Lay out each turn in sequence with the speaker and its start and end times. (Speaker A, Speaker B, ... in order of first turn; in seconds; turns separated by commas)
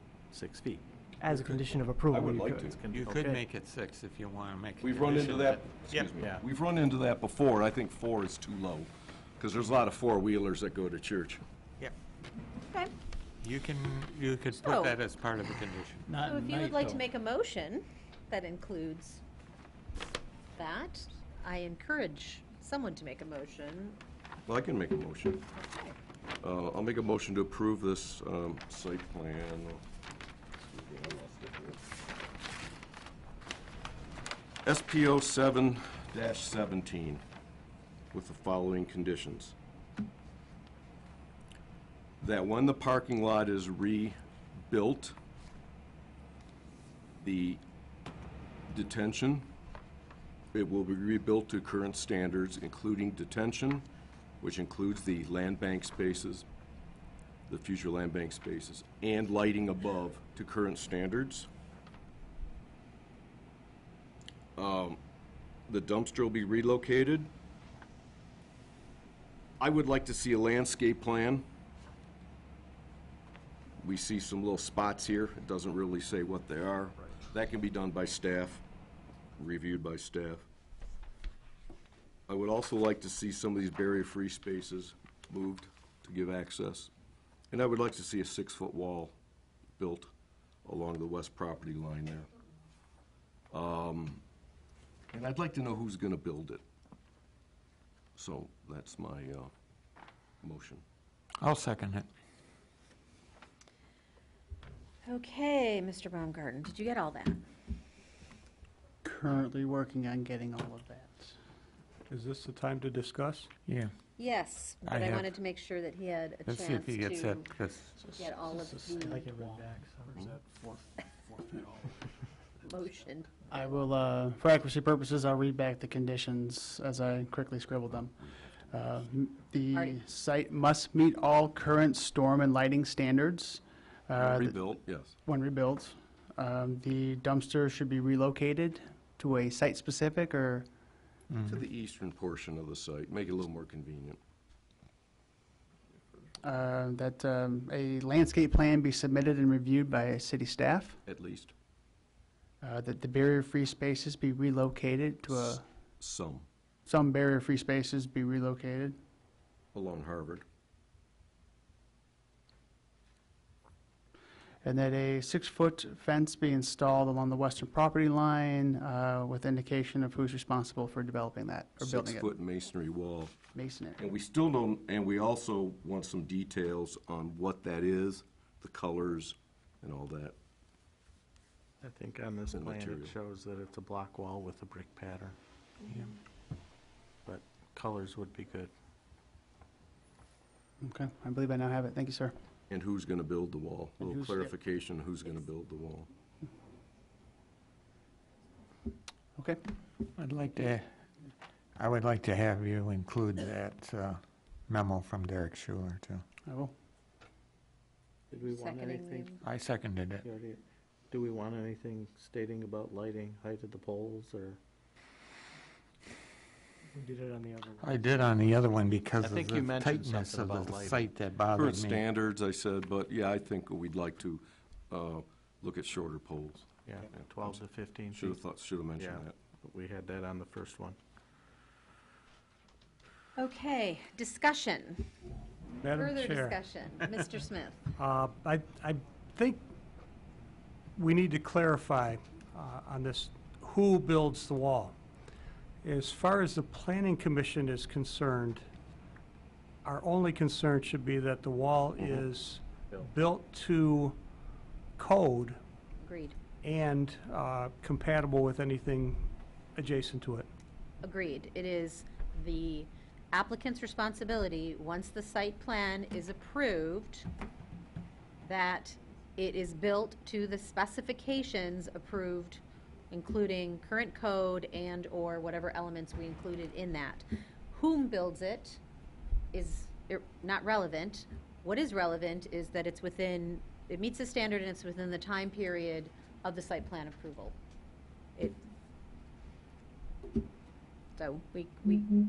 Speaker A: 0.3-0.9, Speaker B: 1.2-3.4, Speaker C: 1.3-2.8, Speaker A: 2.8-3.4, Speaker D: 2.9-6.1, Speaker C: 4.8-11.4, Speaker D: 13.4-16.1, Speaker E: 14.6-15.0, Speaker E: 16.2-19.2, Speaker E: 20.6-24.0, Speaker C: 24.5-25.5, Speaker E: 25.6-25.9, Speaker C: 26.4-29.8, Speaker C: 30.7-31.9, Speaker C: 34.7-37.2, Speaker C: 38.1-39.5, Speaker C: 42.2-44.2, Speaker C: 44.7-45.2, Speaker C: 47.2-47.6, Speaker C: 48.7-49.5, Speaker C: 50.5-53.9, Speaker C: 54.4-56.5, Speaker C: 57.5-61.5, Speaker C: 64.6-65.0, Speaker C: 65.7-67.3, Speaker C: 69.6-71.5, Speaker C: 73.8-78.6, Speaker C: 79.4-80.5, Speaker C: 82.3-86.9, Speaker C: 87.5-89.2, Speaker C: 89.8-90.1, Speaker C: 90.7-92.3, Speaker C: 93.5-94.2, Speaker C: 95.1-96.6, Speaker C: 98.2-99.5, Speaker C: 100.4-100.8, Speaker D: 101.4-102.1, Speaker E: 105.0-107.4, Speaker F: 109.0-111.3, Speaker G: 112.1-113.5, Speaker D: 113.7-113.9, Speaker E: 114.2-117.5, Speaker D: 114.8-115.3, Speaker D: 116.5-118.0, Speaker E: 118.0-119.3, Speaker A: 118.6-120.4, Speaker B: 119.1-120.1, Speaker E: 122.6-123.3, Speaker F: 123.5-134.7, Speaker C: 134.1-135.2, Speaker F: 135.2-140.7, Speaker D: 141.3-141.6, Speaker C: 141.5-144.2, Speaker F: 146.4-151.0, Speaker C: 151.1-151.5, Speaker F: 152.6-155.6, Speaker C: 155.3-156.5, Speaker F: 156.9-159.0, Speaker C: 159.7-160.5, Speaker F: 164.6-172.3, Speaker C: 171.8-173.4, Speaker F: 173.5-174.0, Speaker C: 174.0-180.4, Speaker A: 181.8-185.4, Speaker C: 182.5-183.2, Speaker A: 187.3-188.7, Speaker F: 190.8-192.3, Speaker C: 192.7-196.1, Speaker F: 194.0-194.5, Speaker D: 200.2-200.9, Speaker D: 201.8-206.2, Speaker F: 206.5-206.7, Speaker A: 208.3-209.3, Speaker E: 208.4-209.4, Speaker D: 209.4-210.2, Speaker A: 210.2-214.6, Speaker B: 216.9-218.0, Speaker D: 217.8-222.1, Speaker A: 219.2-221.1, Speaker C: 221.5-229.3, Speaker A: 226.9-228.4, Speaker A: 229.0-231.0, Speaker E: 233.4-235.1, Speaker G: 235.8-236.6, Speaker E: 235.9-237.8, Speaker G: 238.0-239.7, Speaker G: 241.0-244.9, Speaker G: 245.8-248.7, Speaker G: 249.8-254.2, Speaker G: 255.0-255.6, Speaker E: 256.0-256.4, Speaker G: 256.6-260.5, Speaker E: 261.0-267.3, Speaker E: 268.5-278.8, Speaker E: 279.5-287.6, Speaker E: 291.2-292.2